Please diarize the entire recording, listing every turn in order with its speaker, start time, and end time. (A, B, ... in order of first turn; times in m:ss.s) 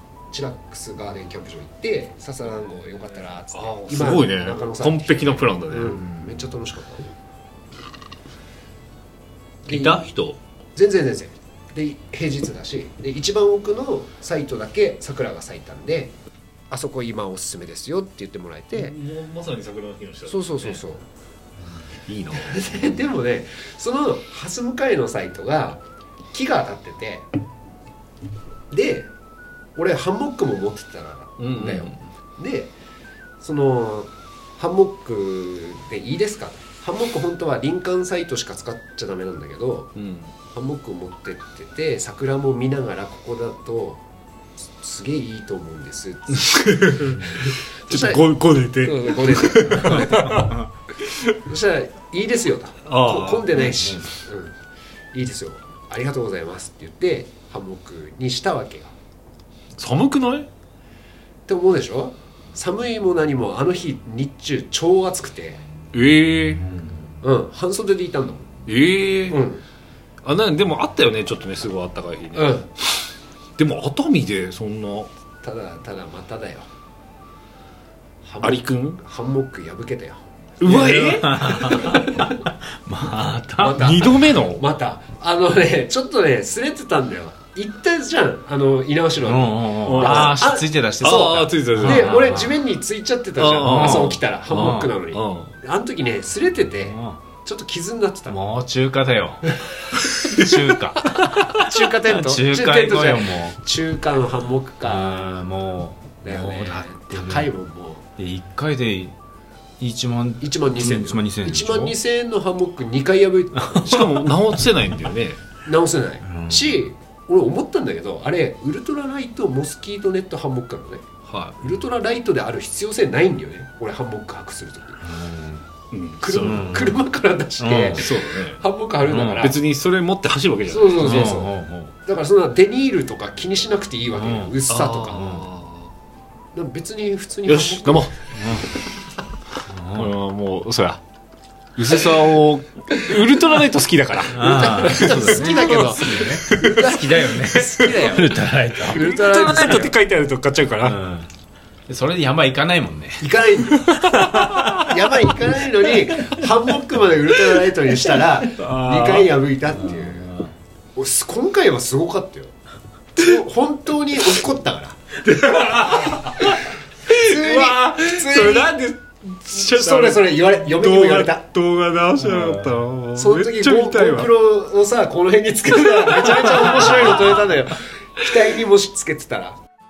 0:00.3-0:07.1 A
0:03.5-0:06.0 B
0:06.0-0:06.5 C
0:09.6-0:10.4 B
0:09.7-0:10.1 A
0:10.8-0:16.2 A
0:16.7-0:19.0 A
0:18.7-0:20.8 B
0:20.3-0:21.0 A
0:22.0-0:22.7 B
0:22.4-0:27.3 A
0:28.7-0:29.1 A
0:29.8-0:32.7 A
0:31.4-0:32.0 B
0:33.4-0:39.9 A
0:39.9-0:40.3 B
0:40.5-0:44.0 A
0:44.8-0:46.4 A
0:46.4-0:50.6 B
0:47.8-0:50.4 A
0:51.5-0:54.6 A
0:52.8-0:53.6 B
0:53.5-0:54.1 C
0:55.1-0:58.9 A
0:59.8-1:00.5 B
1:01.5-1:05.6 A
1:05.9-1:06.6 B
1:06.6-1:07.0 C
1:07.2-1:08.5 A
1:08.6-1:09.4 B
1:09.3-1:09.6 A
1:10.2-1:12.6 B
1:12.3-1:12.7 A
1:13.6-1:15.1 B
1:15.4-1:16.7 A
1:18.2-1:20.2 A
1:18.4-1:19.0 B
1:20.6-1:21.9 B
1:20.6-1:24.2 C
1:21.5-1:22.2 A
1:23.6-1:38.4 A
1:23.8-1:24.6 B
1:29.2-1:32.6 C
1:29.8-1:30.5 B
1:31.0-1:32.4 B
1:33.4-1:35.6 B
1:33.6-1:34.9 C
1:36.7-1:37.2 C
1:38.2-1:39.6 C
1:40.2-1:40.5 B
1:40.2-1:43.6 C
1:41.6-1:45.5 A
1:44.8-1:47.5 C
1:46.2-1:48.0 A
1:48.2-1:49.1 C
1:49.8-1:52.0 C
1:50.4-1:54.2 A
1:53.6-1:53.9 C
1:53.9-1:55.4 B
1:55.6-2:01.0 A
1:56.2-1:56.9 C
2:01.2-2:01.6 B
2:01.6-2:05.1 A
2:05.0-2:05.7 C
2:05.9-2:06.8 B
2:06.2-2:09.6 A
2:06.3-2:07.0 C
2:07.6-2:08.1 C
2:07.9-2:08.6 B
2:09.0-2:09.5 C
2:09.4-2:11.4 B
2:10.6-2:15.3 A
2:11.0-2:11.9 C
2:14.1-2:15.5 C
2:14.7-2:15.9 B
2:16.5-2:18.1 A
2:17.5-2:18.3 B
2:18.3-2:18.8 C
2:19.7-2:20.1 C
2:19.9-2:21.0 B
2:21.8-2:26.9 B
2:24.3-2:29.8 C
2:24.4-2:28.3 A
2:27.5-2:28.2 B
2:28.8-2:31.0 B
2:28.8-2:29.9 A
2:30.8-2:31.3 C
2:31.9-2:33.3 C
2:33.2-2:33.9 A
2:33.7-2:34.9 B
2:34.8-2:40.4 A
2:38.4-2:39.3 B
2:39.7-2:40.5 C
2:40.9-2:42.5 A
2:43.2-2:45.0 A
2:45.2-2:54.3 B
2:47.1-2:48.8 A
2:49.6-2:51.5 A
2:52.2-2:52.7 C
2:53.2-2:59.6 A
2:55.8-2:57.4 B